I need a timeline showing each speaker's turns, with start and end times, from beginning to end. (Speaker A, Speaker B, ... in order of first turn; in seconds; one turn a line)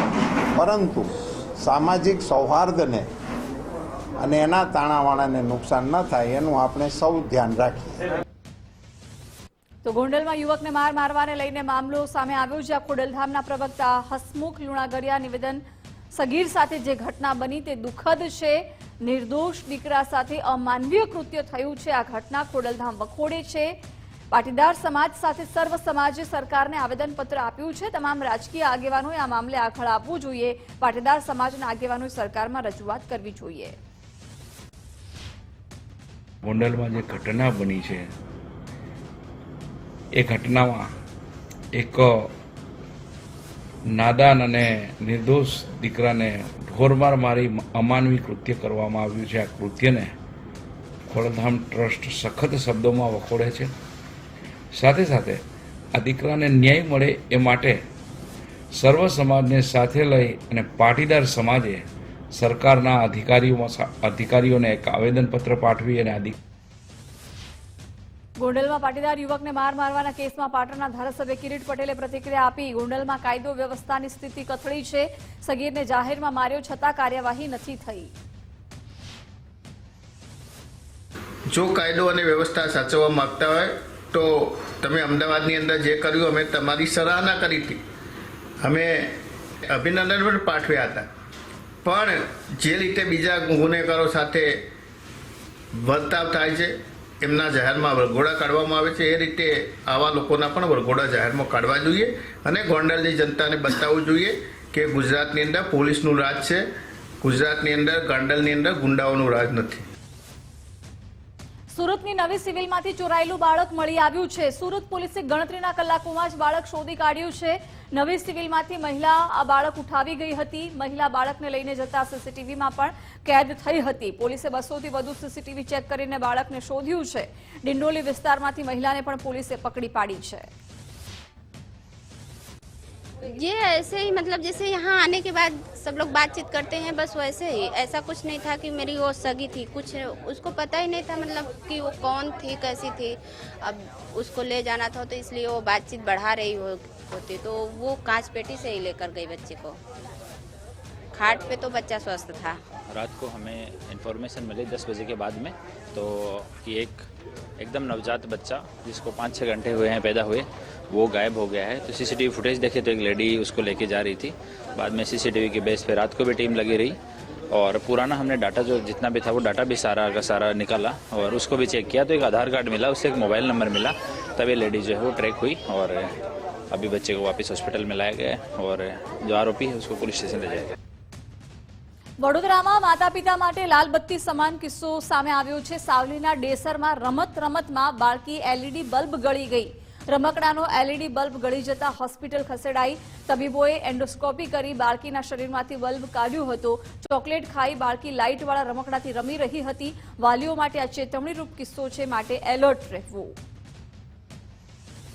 Speaker A: 0.5-3.1
Speaker A: 4.2-8.0
Speaker B: 9.8-15.6
Speaker B: 16.1-23.8
Speaker B: 24.3-33.8
Speaker C: 36.4-38.1
Speaker C: 40.1-40.9
Speaker C: 41.7-42.3
Speaker C: 43.9-50.1
Speaker C: 51.1-53.7
Speaker C: 54.7-55.4
Speaker C: 55.9-57.8
Speaker C: 58.7-66.3
Speaker B: 68.4-78.1
Speaker D: 81.5-87.8
Speaker D: 88.6-91.1
Speaker D: 91.8-94.6
Speaker D: 95.8-106.6
Speaker D: 107.2-109.8
Speaker B: 111.7-130.5
Speaker E: 133.2-149.8
Speaker E: 151.1-152.6
Speaker F: 152.8-157.1
Speaker F: 157.6-167.0
Speaker F: 167.5-176.1
Speaker F: 176.7-180.7
Speaker B: 182.2-203.3